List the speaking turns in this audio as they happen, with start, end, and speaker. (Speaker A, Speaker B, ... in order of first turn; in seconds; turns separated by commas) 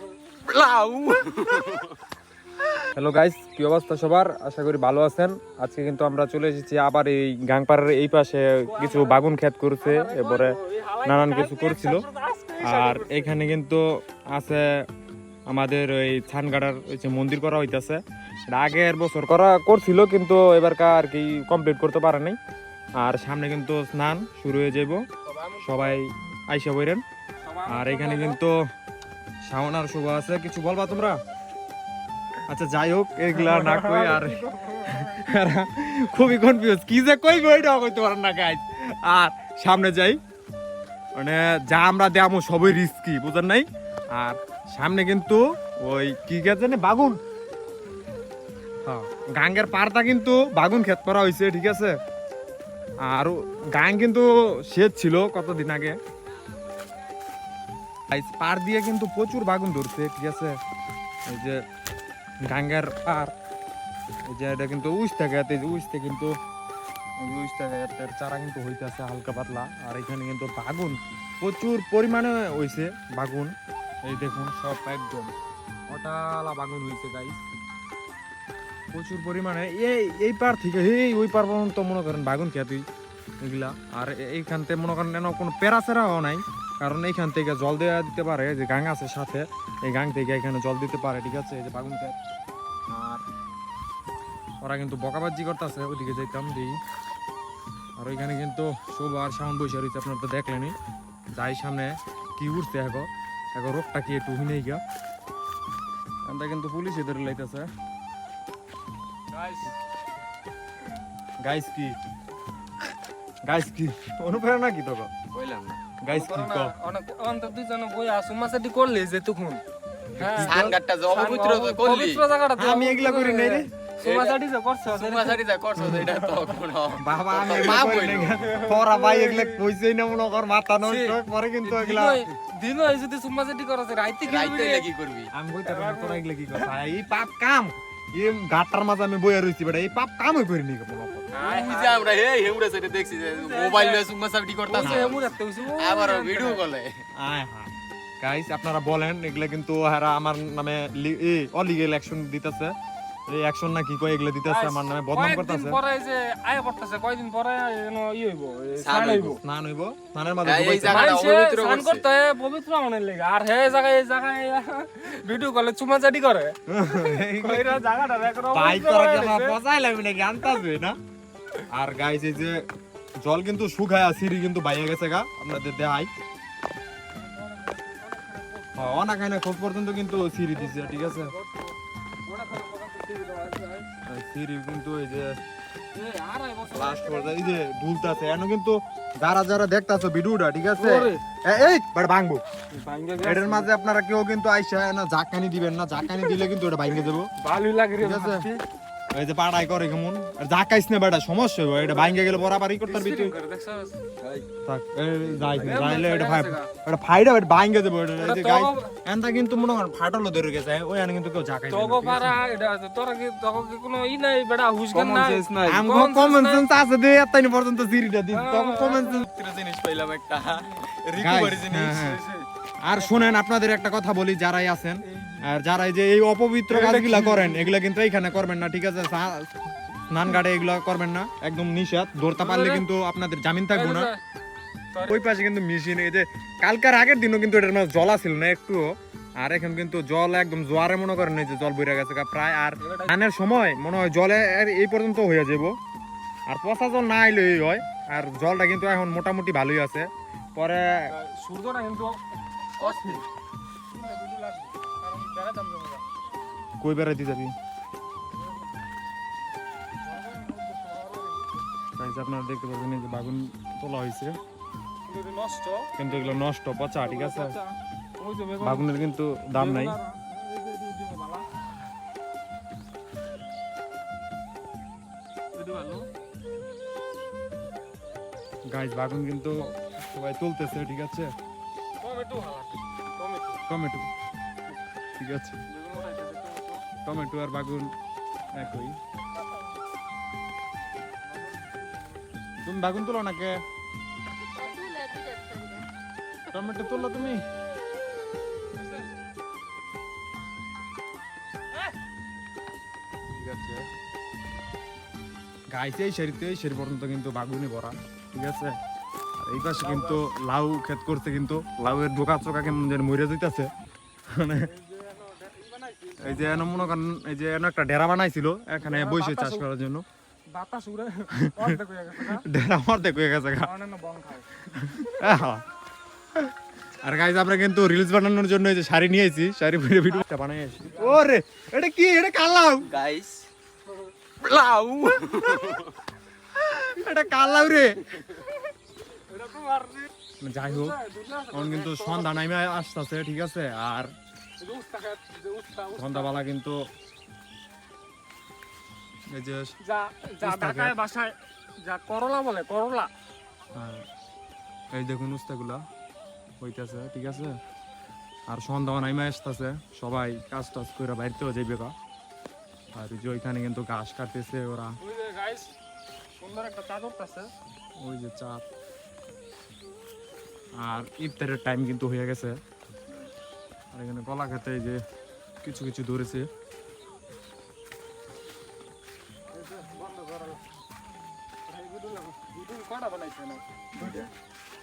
Speaker A: 0.4-2.0, Speaker B: 2.9-12.1, Speaker C: 8.7-9.2, Speaker C: 9.8-13.3, Speaker B: 12.6-14.9, Speaker B: 15.5-22.4, Speaker B: 23.0-25.1, Speaker C: 25.2-26.0, Speaker B: 25.6-27.0, Speaker C: 27.4-28.4, Speaker B: 27.7-28.7, Speaker B: 29.4-31.2, Speaker B: 32.5-40.2, Speaker C: 33.3-35.3, Speaker B: 41.2-47.2, Speaker B: 48.8-52.0, Speaker B: 53.0-56.0, Speaker B: 58.1-60.6, Speaker B: 61.3-61.6, Speaker B: 62.5-63.3, Speaker B: 64.2-66.4, Speaker B: 67.2-75.3, Speaker B: 75.9-77.5, Speaker B: 78.9-82.9, Speaker B: 83.4-92.2, Speaker B: 92.9-93.2, Speaker B: 94.6-96.8, Speaker B: 98.0-100.8, Speaker B: 101.3-104.8, Speaker B: 106.3-107.7, Speaker C: 109.3-109.7, Speaker B: 111.4-112.0, Speaker B: 113.5-115.1, Speaker A: 115.3-115.8, Speaker B: 116.0-116.8, Speaker C: 116.1-119.6, Speaker B: 120.2-120.8, Speaker C: 120.2-125.4, Speaker A: 120.3-122.2, Speaker B: 122.6-123.7, Speaker A: 124.0-128.6, Speaker B: 125.8-126.2, Speaker B: 127.0-132.2, Speaker C: 128.5-129.6, Speaker C: 130.8-134.9, Speaker A: 134.2-135.3, Speaker B: 135.3-141.4, Speaker C: 135.7-136.7, Speaker C: 141.3-142.2, Speaker A: 141.3-147.0, Speaker C: 143.2-144.1, Speaker C: 144.7-146.6, Speaker B: 144.8-145.2, Speaker B: 147.2-147.7, Speaker B: 148.2-152.8, Speaker B: 153.3-155.8, Speaker C: 154.4-159.4, Speaker A: 158.8-159.4, Speaker B: 159.4-161.2, Speaker A: 160.4-162.1, Speaker C: 160.8-169.6, Speaker B: 166.7-167.8, Speaker B: 168.5-171.0, Speaker B: 171.7-172.7, Speaker B: 173.2-176.1, Speaker C: 177.2-179.0, Speaker B: 178.8-181.3, Speaker C: 180.6-183.9, Speaker B: 184.1-185.4, Speaker C: 185.9-188.3, Speaker B: 186.7-192.4, Speaker C: 190.8-191.2, Speaker C: 192.7-193.7, Speaker B: 193.2-197.3, Speaker C: 197.4-198.6, Speaker B: 198.0-198.5, Speaker B: 199.1-203.3, Speaker C: 201.8-204.0, Speaker A: 204.2-204.5, Speaker B: 204.7-212.4, Speaker A: 205.3-206.0, Speaker C: 205.6-206.7, Speaker C: 208.2-209.0, Speaker C: 211.7-216.7, Speaker A: 214.9-215.9, Speaker B: 215.6-219.3, Speaker C: 218.3-219.3, Speaker A: 219.3-222.4, Speaker B: 221.2-222.2, Speaker B: 222.8-229.5, Speaker C: 223.0-223.3, Speaker C: 225.1-225.4, Speaker C: 226.7-227.7, Speaker B: 230.1-234.1, Speaker C: 232.3-232.9, Speaker C: 233.7-234.2, Speaker C: 234.9-235.2, Speaker B: 235.0-245.8, Speaker C: 242.8-243.1, Speaker B: 246.5-251.1, Speaker C: 251.1-253.2, Speaker A: 252.8-253.2, Speaker C: 253.9-256.1, Speaker B: 256.8-257.6, Speaker C: 260.1-261.6, Speaker B: 262.0-264.4, Speaker C: 265.1-266.4, Speaker B: 266.0-267.6, Speaker C: 267.0-269.0, Speaker B: 268.6-270.0, Speaker C: 269.5-271.5, Speaker C: 275.6-276.1, Speaker B: 278.7-281.3, Speaker C: 282.0-283.6, Speaker B: 283.7-284.1, Speaker B: 285.2-285.6, Speaker C: 285.7-286.9, Speaker B: 287.1-287.9, Speaker B: 288.5-289.0, Speaker B: 292.6-293.6, Speaker C: 294.6-295.8, Speaker B: 296.5-297.4, Speaker B: 303.4-303.9, Speaker B: 305.7-308.8, Speaker B: 309.4-313.7, Speaker C: 309.8-310.2, Speaker B: 314.3-314.7, Speaker C: 314.6-317.0, Speaker B: 316.2-320.1, Speaker C: 318.8-319.7, Speaker C: 320.5-322.5, Speaker B: 321.3-323.7, Speaker C: 323.6-324.5, Speaker B: 324.7-325.6, Speaker B: 327.0-332.9, Speaker C: 330.9-331.2, Speaker A: 332.9-333.5, Speaker A: 334.4-335.9, Speaker B: 336.6-338.1, Speaker C: 339.3-340.1, Speaker B: 340.4-341.0, Speaker C: 340.7-342.4, Speaker B: 341.5-344.1, Speaker C: 344.6-346.4, Speaker B: 345.9-346.9, Speaker B: 349.3-349.8, Speaker C: 349.8-353.1, Speaker B: 350.4-350.9, Speaker B: 353.7-354.1, Speaker B: 354.9-355.8, Speaker B: 356.6-357.6, Speaker B: 358.5-361.9, Speaker B: 362.9-365.0, Speaker C: 365.0-365.7, Speaker C: 366.4-367.5, Speaker B: 368.0-368.7, Speaker B: 370.8-372.6, Speaker B: 373.9-375.0, Speaker B: 375.6-376.5, Speaker C: 379.5-380.7, Speaker C: 381.7-384.3